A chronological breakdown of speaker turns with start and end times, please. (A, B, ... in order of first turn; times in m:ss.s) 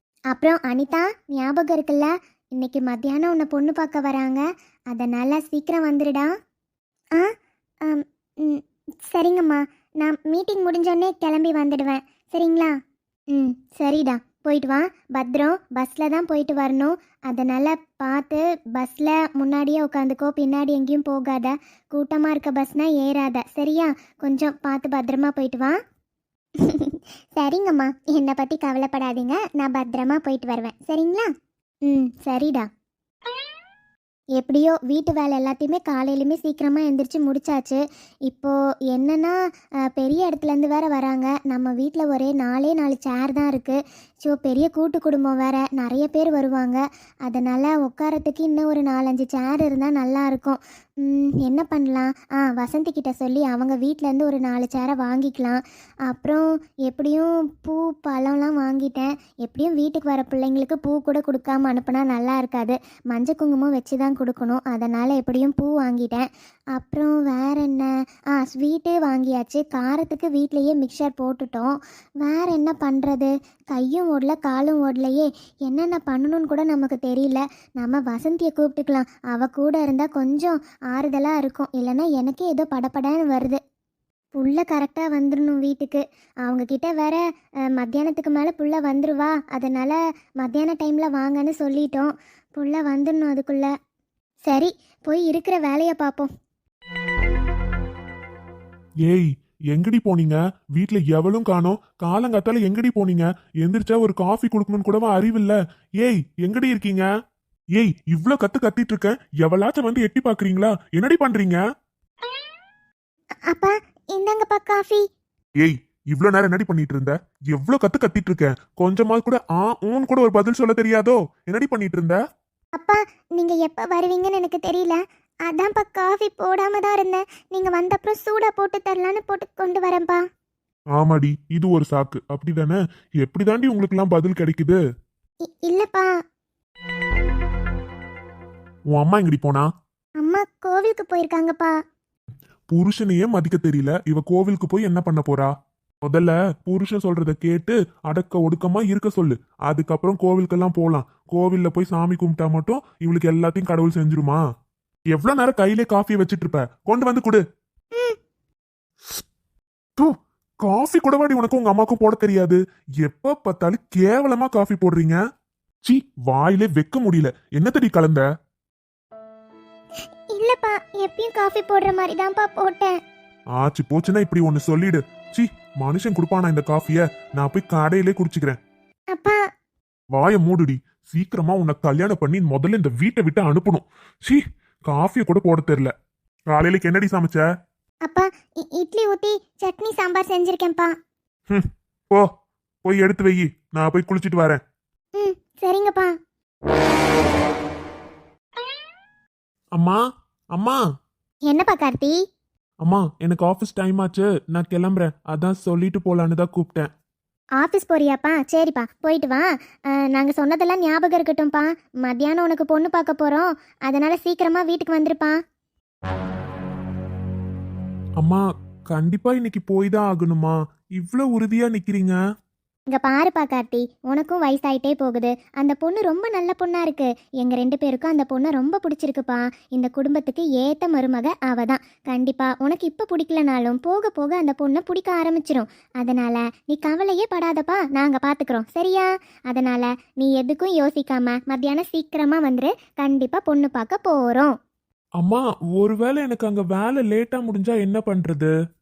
0:00.3-0:06.3 A
0:07.8-0:12.7 A
0:13.3-0:25.8 A
0:26.6-0:31.3 A
0:31.9-0:32.7 A
0:34.4-0:39.4 A
0:40.0-1:23.6 A
1:24.4-1:27.2 A
1:27.7-1:33.7 A
1:34.5-1:36.3 A
1:39.0-1:47.1 B
1:47.7-1:51.6 B
1:53.5-1:55.0 A
1:55.6-2:02.2 B
2:02.8-2:10.2 A
2:11.0-2:14.8 B
2:15.5-2:16.1 A
2:18.9-2:19.7 B
2:20.2-2:21.7 A
2:22.7-2:25.5 B
2:26.0-2:34.4 B
2:35.1-2:37.4 B
2:40.0-2:45.2 B
2:45.8-2:48.2 B
2:50.3-2:53.0 A
2:53.6-2:58.6 B
3:00.1-3:05.9 B
3:06.5-3:07.4 B
3:08.0-3:10.9 A
3:11.5-3:12.3 B
3:12.8-3:14.6 B
3:15.2-3:16.1 A
3:20.5-3:20.8 B
3:21.5-3:22.2 A
3:22.8-3:26.9 B
3:27.6-3:29.4 A
3:30.0-3:35.4 A
3:38.2-3:42.2 B
3:42.9-4:04.5 A
4:05.2-4:08.5 B